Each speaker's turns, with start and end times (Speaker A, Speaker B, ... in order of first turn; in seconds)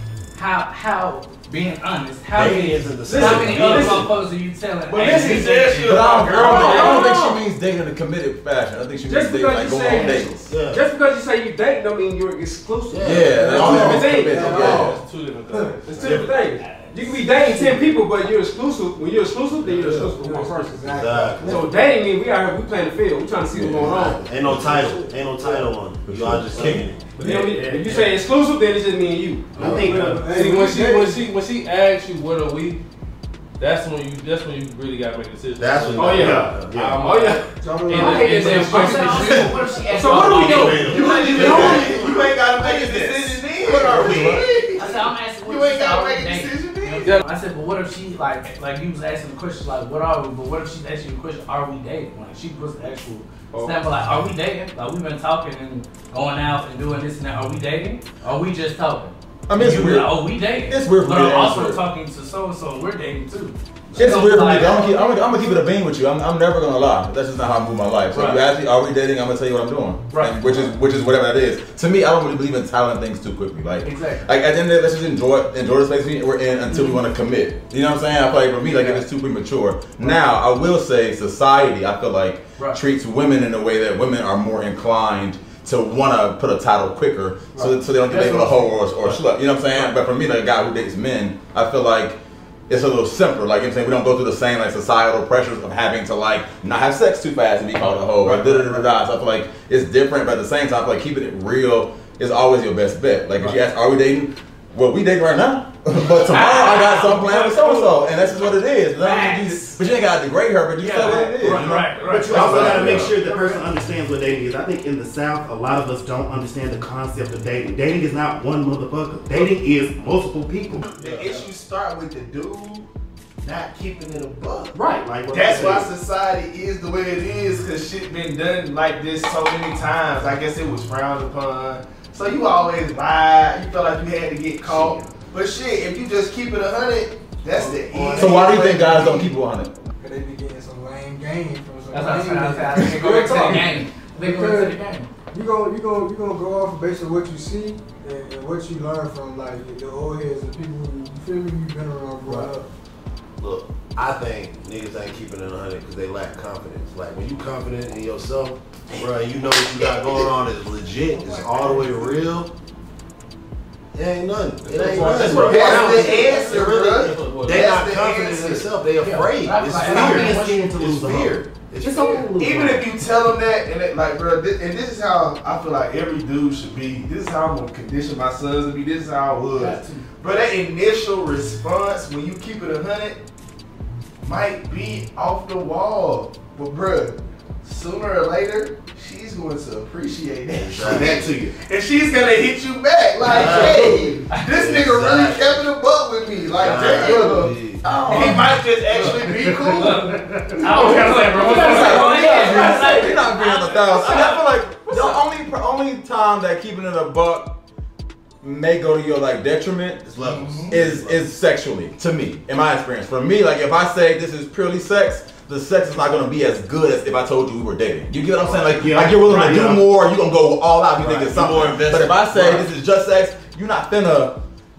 Speaker A: 0.3-7.1, 38.0-41.5, 44.7-65.6, 68.1-68.4, 70.1-70.7, 73.8-74.2, 106.3-107.6, 111.3-112.2, 141.9-145.1, 161.1-162.2, 169.0-170.6, 179.5-180.0, 199.8-204.3
Speaker B: 2.3-4.1, 9.8-10.8, 12.9-14.3, 16.0-16.4, 20.9-21.7, 23.6-27.1, 29.6-30.2, 35.6-37.1, 39.2-39.6, 40.1-44.5, 112.3-113.1, 134.7-134.9, 153.4-162.5, 163.9-172.8, 190.5-191.4, 193.2-195.7, 196.3-198.3, 199.0-199.8, 210.0-211.2, 221.0-222.6
Speaker C: 2.4-4.1, 4.9-7.4, 9.0-14.9, 15.9-20.9, 21.4-24.2, 27.1-31.0, 36.0-42.0, 165.4-166.0, 200.7-202.0
Speaker D: 5.0-7.1, 36.1-36.5, 40.9-47.1, 98.2-98.8, 106.6-108.3, 109.0-109.8, 110.8-113.6, 120.8-122.9, 123.4-124.7, 125.3-139.2, 164.8-168.7, 169.8-183.2, 184.2-205.2, 210.4-210.7
Speaker E: 5.8-10.5, 13.0-14.9, 23.5-23.9, 26.1-26.9, 59.5-61.8, 63.9-113.1, 138.2-139.8, 197.8-198.6, 201.5-207.5, 208.4-210.1, 210.7-224.4
Speaker F: 13.4-16.1, 17.0-17.9, 19.6-21.7, 24.4-25.7, 29.6-31.2, 37.6-38.6, 137.5-139.3, 140.0-144.8, 145.3-152.7
Speaker G: 14.0-16.9, 30.2-32.8, 33.6-39.5, 164.7-165.7, 167.0-167.7, 200.8-202.2
Speaker H: 26.6-28.2, 112.0-121.2, 124.7-125.9, 164.8-166.0, 172.2-172.5, 218.4-219.8